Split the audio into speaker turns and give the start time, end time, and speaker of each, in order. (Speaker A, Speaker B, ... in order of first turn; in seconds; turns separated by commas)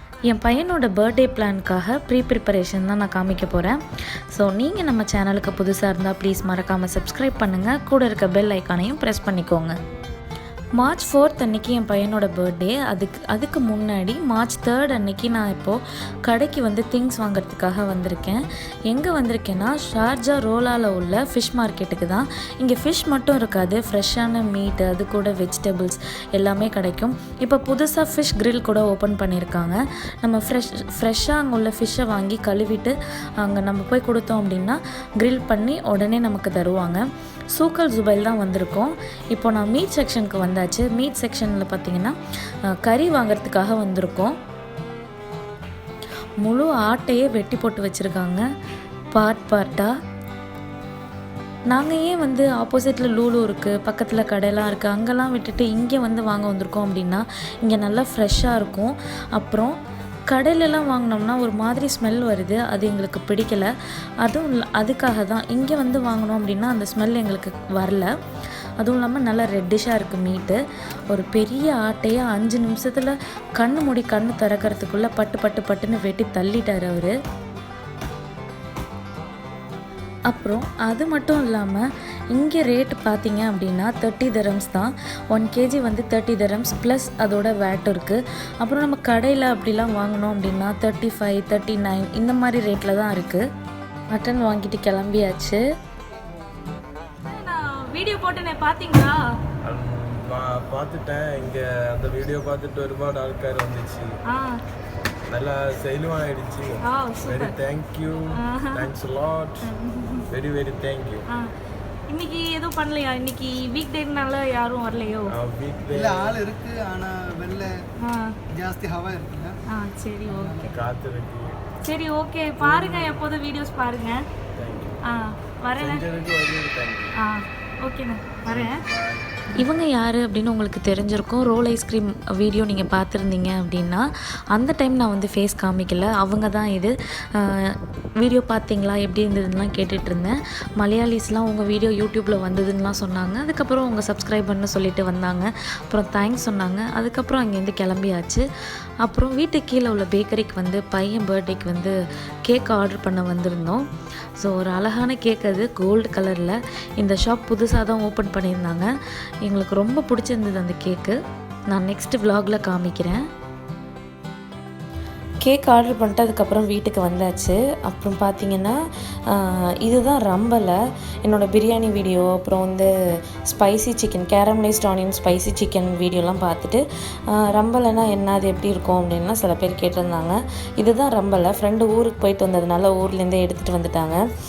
Speaker A: 0.3-3.8, Speaker A: 4.3-9.8, Speaker A: 10.8-37.0, Speaker A: 37.5-42.1, Speaker A: 42.7-44.4, Speaker A: 46.4-48.4, Speaker A: 49.1-49.9, Speaker A: 51.7-59.8, Speaker A: 60.3-63.7, Speaker A: 64.2-68.1, Speaker A: 68.8-70.6, Speaker A: 71.1-77.1, Speaker A: 80.3-93.4, Speaker A: 94.1-95.6, Speaker B: 97.2-99.3, Speaker C: 99.6-104.1, Speaker B: 104.3-104.6, Speaker C: 105.3-109.7, Speaker B: 106.8-107.5, Speaker B: 108.4-108.9, Speaker B: 109.7-110.2, Speaker C: 110.3-111.2, Speaker B: 112.1-115.3, Speaker C: 115.3-116.5, Speaker D: 116.0-117.7, Speaker B: 118.0-118.3, Speaker D: 118.5-119.5, Speaker B: 119.7-120.7, Speaker D: 120.3-120.6, Speaker C: 120.6-121.5, Speaker B: 121.8-124.2, Speaker C: 122.6-123.2, Speaker C: 124.6-125.0, Speaker B: 125.1-126.0, Speaker C: 125.8-127.2, Speaker B: 127.2-128.8, Speaker C: 128.4-129.3, Speaker A: 129.6-148.4, Speaker A: 149.0-151.9, Speaker A: 152.5-153.8, Speaker A: 154.4-158.9, Speaker A: 159.4-161.2, Speaker A: 161.7-163.2, Speaker A: 165.4-168.8, Speaker A: 169.3-184.2